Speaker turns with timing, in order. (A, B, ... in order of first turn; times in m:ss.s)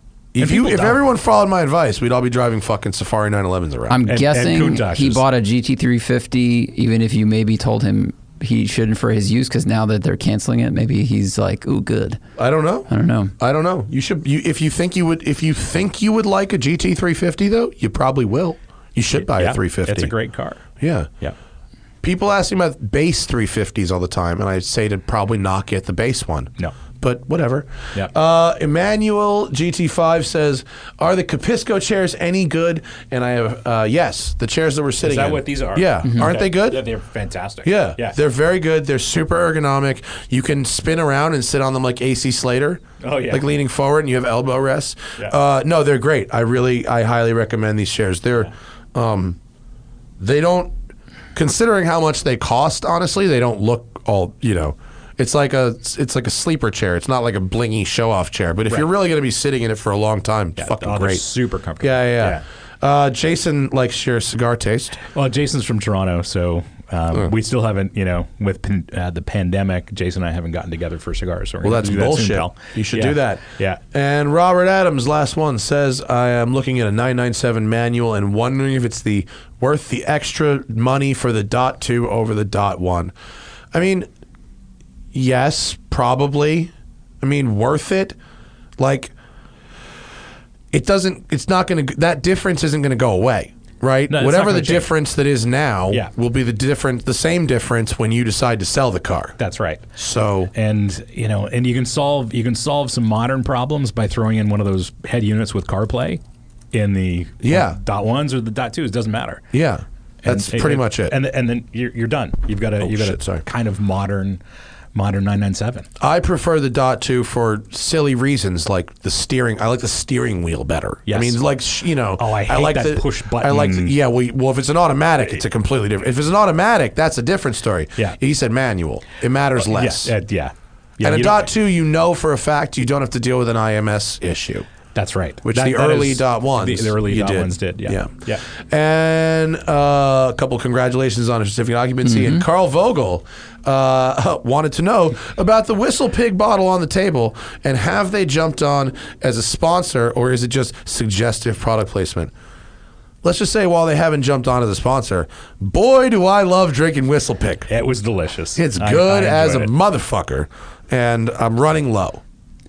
0:00.4-0:04.0 A
0:00.4-0:01.0 B
0:03.9-0:12.2 C
0:04.1-0:05.2 B
0:12.4-0:20.1 A
0:12.9-0:13.3 C
0:19.2-0:20.6 B
0:20.8-0:21.1 A
0:22.0-0:36.8 A
0:35.0-0:38.2 B
0:37.6-0:49.4 A
0:43.0-0:43.5 B
0:50.2-0:50.7 A
0:51.4-1:01.3 A
1:00.6-1:02.4 B
1:01.8-1:05.0 A
1:05.0-1:13.8 B
1:11.6-1:23.1 A
1:23.7-1:24.1 A
1:25.1-1:28.2 A
1:28.8-1:29.1 A
1:30.7-1:39.4 A
1:34.1-1:34.9 B
1:39.4-1:39.9 B
1:40.0-1:40.5 A
1:40.5-1:49.5 B
1:47.4-1:47.8 A
1:49.5-1:51.2 A
1:50.2-1:54.4 B
1:52.8-1:53.4 A
1:54.9-1:55.9 B
1:56.0-2:10.1 A
2:01.1-2:01.4 B
2:02.2-2:03.9 B
2:09.6-2:11.5 B
2:11.0-2:14.7 A
2:15.0-2:18.4 B
2:15.4-2:32.3 A
2:22.1-2:22.4 C
2:33.2-2:37.7 A
2:37.7-2:39.7 B
2:38.6-2:42.2 A